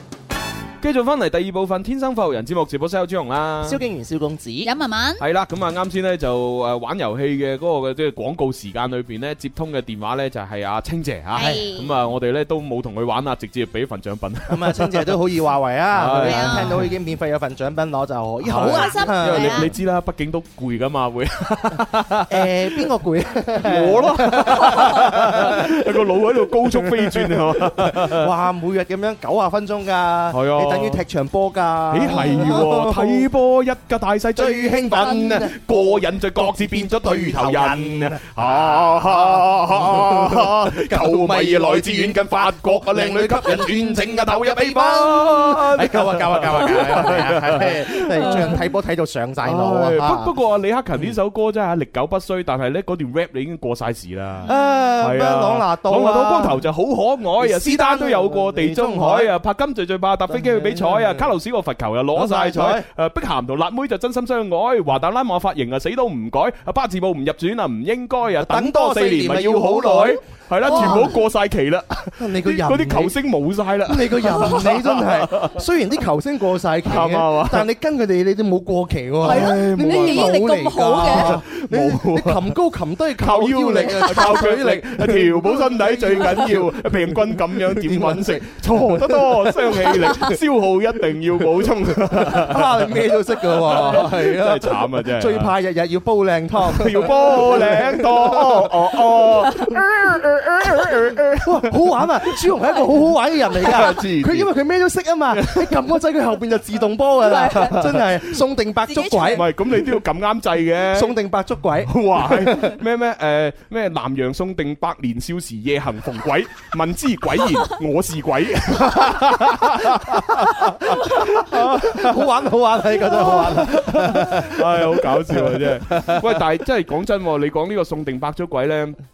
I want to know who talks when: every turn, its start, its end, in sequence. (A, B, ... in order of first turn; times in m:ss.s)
0:00.8-0:03.8 A
0:03.6-0:04.7 B
0:04.6-0:05.2 C
0:05.2-0:15.2 A
0:11.3-0:12.0 C
0:11.4-0:11.6 B
0:14.5-0:19.7 B
0:15.9-0:16.9 A
0:16.2-0:16.9 C
0:18.4-0:22.5 A
0:18.6-0:19.7 C
0:22.3-0:25.9 B
0:23.6-0:28.3 A
0:26.6-0:33.3 B
0:30.3-0:31.0 A
0:31.9-0:48.6 A
0:34.4-0:50.3 B
0:48.2-0:48.6 C
0:49.4-0:54.5 A
0:54.4-0:54.8 C
0:54.4-0:56.6 B
0:55.0-1:15.6 A
0:57.4-0:59.3 B
1:00.3-1:01.3 B
1:02.1-1:02.9 B
1:08.4-1:11.2 B
1:10.7-1:11.1 C
1:12.2-1:13.2 B
1:13.8-1:30.4 B
1:16.8-1:17.7 A
1:19.2-1:20.4 A
1:19.2-1:21.3 C
1:21.0-1:22.6 A
1:23.2-1:35.5 A
1:31.6-1:39.3 B
1:36.7-1:42.5 A
1:41.4-1:49.8 B
1:43.6-1:44.5 A
1:45.3-1:45.8 A
1:47.2-1:47.8 C
1:47.5-1:48.4 A
1:48.8-1:49.4 C
1:49.3-1:51.2 A
1:50.9-1:52.8 B
1:51.8-2:02.2 A
1:58.9-2:06.4 B
2:03.2-2:09.0 A